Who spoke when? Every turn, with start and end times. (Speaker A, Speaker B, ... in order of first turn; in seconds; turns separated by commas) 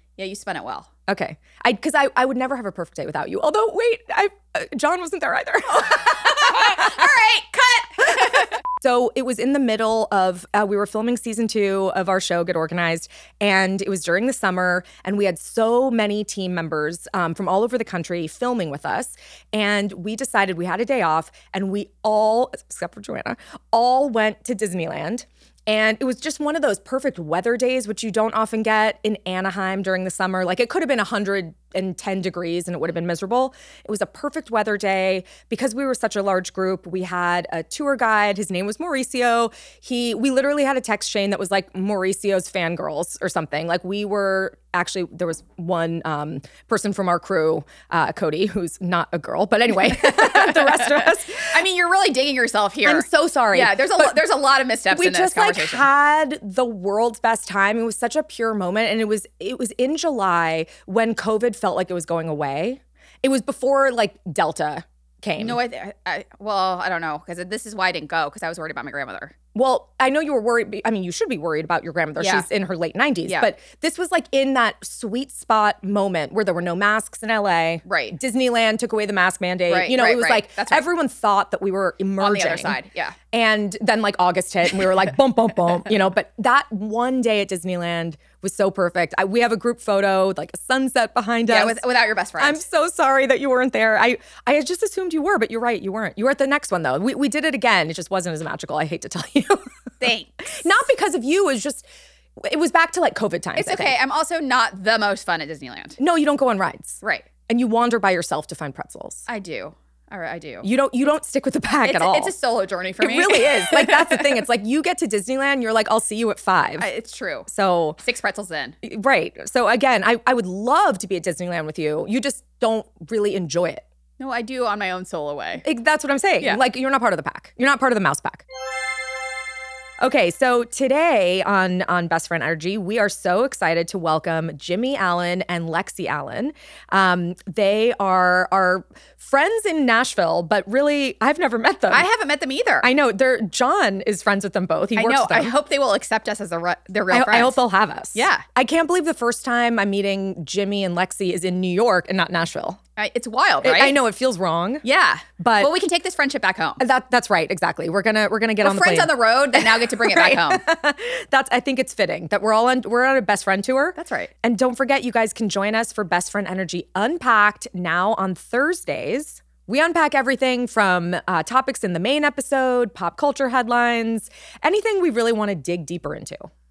Speaker A: 0.2-0.9, Speaker B: 1.1-7.0, Speaker A: 6.4-8.5, Speaker B: 8.0-51.5, Speaker A: 49.9-55.9, Speaker B: 52.8-54.2, Speaker B: 54.9-65.6, Speaker A: 65.4-69.3, Speaker B: 69.5-82.8, Speaker A: 72.2-72.5, Speaker A: 73.2-73.5, Speaker A: 77.8-78.2, Speaker A: 79.7-80.8, Speaker A: 82.2-83.2, Speaker B: 83.3-91.8, Speaker A: 91.5-92.6, Speaker B: 92.4-99.6, Speaker A: 100.0-100.6, Speaker B: 100.5-101.9, Speaker B: 102.4-104.0, Speaker A: 103.6-106.0, Speaker B: 106.0-109.3, Speaker A: 109.3-110.7, Speaker B: 110.6-112.3, Speaker A: 111.8-114.4, Speaker B: 113.0-116.9, Speaker A: 116.8-117.5, Speaker B: 117.5-118.0, Speaker A: 118.0-118.8, Speaker B: 118.8-123.8, Speaker A: 124.2-125.6, Speaker B: 125.6-128.4, Speaker B: 130.0-142.1, Speaker A: 141.9-142.9, Speaker B: 142.8-145.5, Speaker A: 145.0-147.6, Speaker B: 147.1-152.8, Speaker A: 148.1-148.4, Speaker A: 153.0-154.0, Speaker B: 153.6-154.8, Speaker A: 154.8-156.8, Speaker B: 155.4-155.7, Speaker B: 156.8-176.5, Speaker A: 158.6-160.6, Speaker A: 163.9-164.3